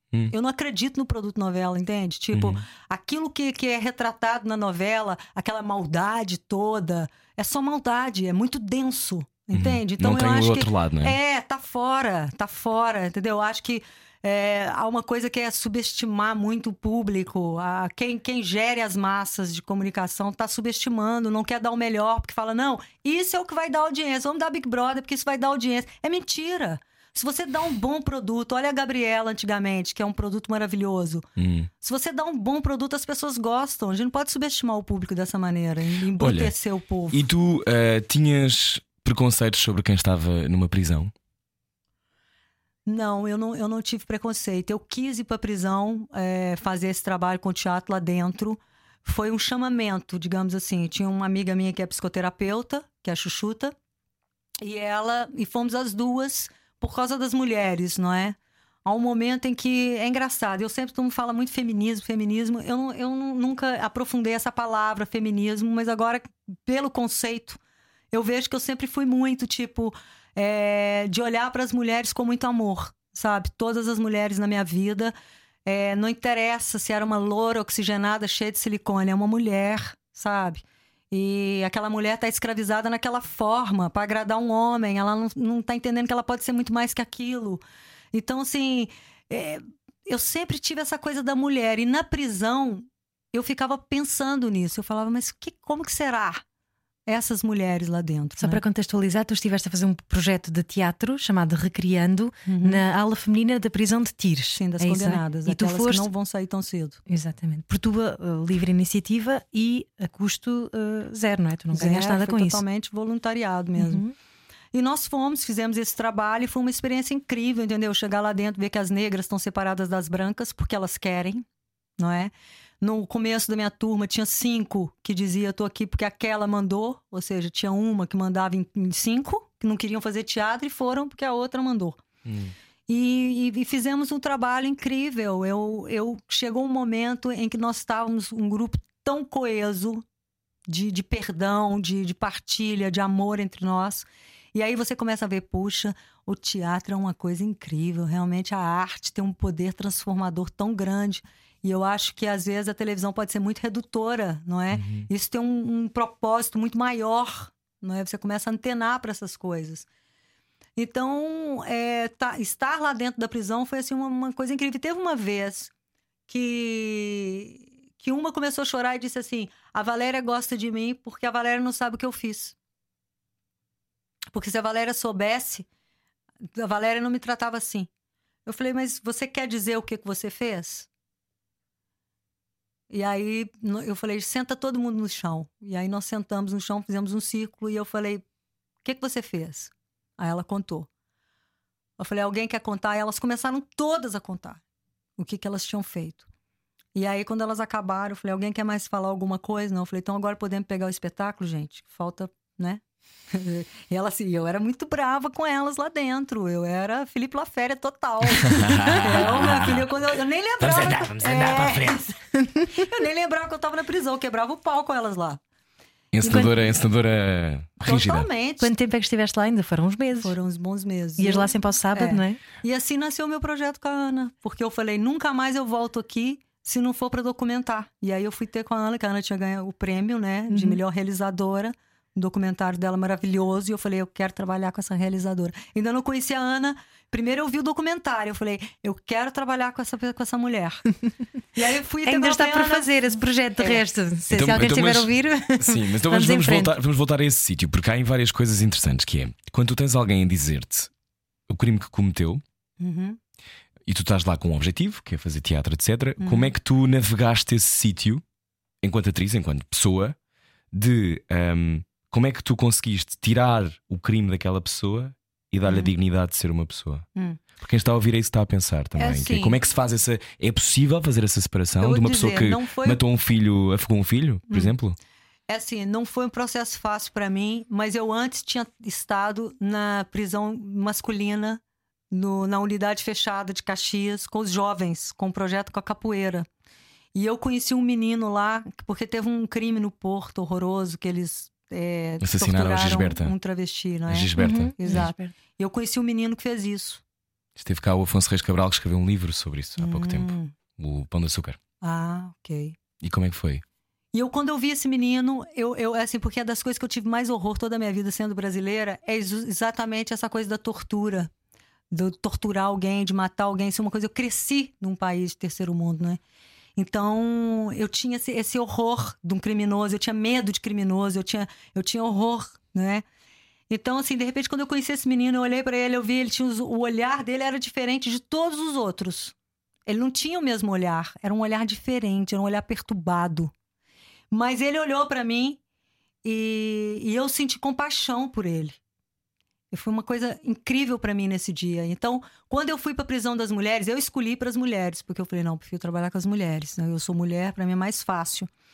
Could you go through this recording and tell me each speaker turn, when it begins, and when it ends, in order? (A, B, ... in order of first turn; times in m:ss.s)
0:00.3-0:31.3 A
0:02.3-0:02.6 B
0:09.5-0:11.2 B
0:31.4-0:31.7 B
0:31.8-0:37.3 A
0:36.2-0:36.5 B
0:37.1-0:41.1 B
0:42.9-0:53.7 A
0:54.6-1:07.6 A
1:08.1-1:15.1 A
1:15.6-1:27.6 A
1:28.1-1:36.4 A
1:37.1-1:38.6 A
1:38.4-1:46.1 C
1:42.4-1:42.8 A
1:44.5-1:47.0 A
1:47.1-1:52.6 C
1:51.7-1:54.0 A
1:53.8-1:54.1 C
1:54.7-2:01.4 A
2:02.0-2:12.0 A
2:12.2-2:12.5 B
2:12.9-2:20.0 A
2:20.7-2:39.9 A
2:34.7-2:35.1 B
2:40.8-2:45.7 A
2:46.3-2:52.6 A
2:54.3-2:55.7 A
2:56.5-2:57.9 A
2:58.4-3:00.9 A
3:02.9-3:08.2 A
3:08.8-3:10.9 A
3:12.0-3:14.6 A
3:15.2-3:16.3 A
3:17.0-3:22.8 A
3:23.3-3:35.4 A
3:28.4-3:29.9 B
3:30.6-3:32.0 B
3:36.1-3:38.3 B
3:36.2-3:36.5 C
3:37.8-3:38.7 A
3:38.6-3:40.3 C
3:40.2-4:00.8 A
3:41.2-3:42.4 C
3:50.5-3:50.8 C
4:01.5-4:03.8 A
4:02.0-4:06.7 C
4:04.3-4:10.9 B
4:11.5-4:12.4 B
4:12.8-4:13.2 A
4:13.9-4:18.2 B
4:16.2-4:16.5 A
4:18.8-4:20.2 B
4:20.7-4:27.0 B
4:25.7-4:25.9 A
4:27.2-4:27.4 A
4:27.6-4:35.0 B
4:29.0-4:29.6 A
4:31.8-4:33.0 A
4:34.5-4:34.8 A
4:35.5-4:46.5 A
4:47.1-4:57.0 A
4:52.2-4:53.3 B
4:54.1-4:55.1 B
4:54.4-4:55.3 C
4:57.6-5:01.6 B
4:59.8-5:00.5 A
5:01.8-5:02.8 A
5:03.0-5:03.6 B
5:04.1-5:11.3 A
5:11.9-5:16.2 A
5:16.8-5:23.0 A
5:23.7-5:29.3 A
5:29.9-5:33.5 A
5:34.3-5:35.6 A
5:36.2-5:38.8 A
5:39.7-5:48.5 A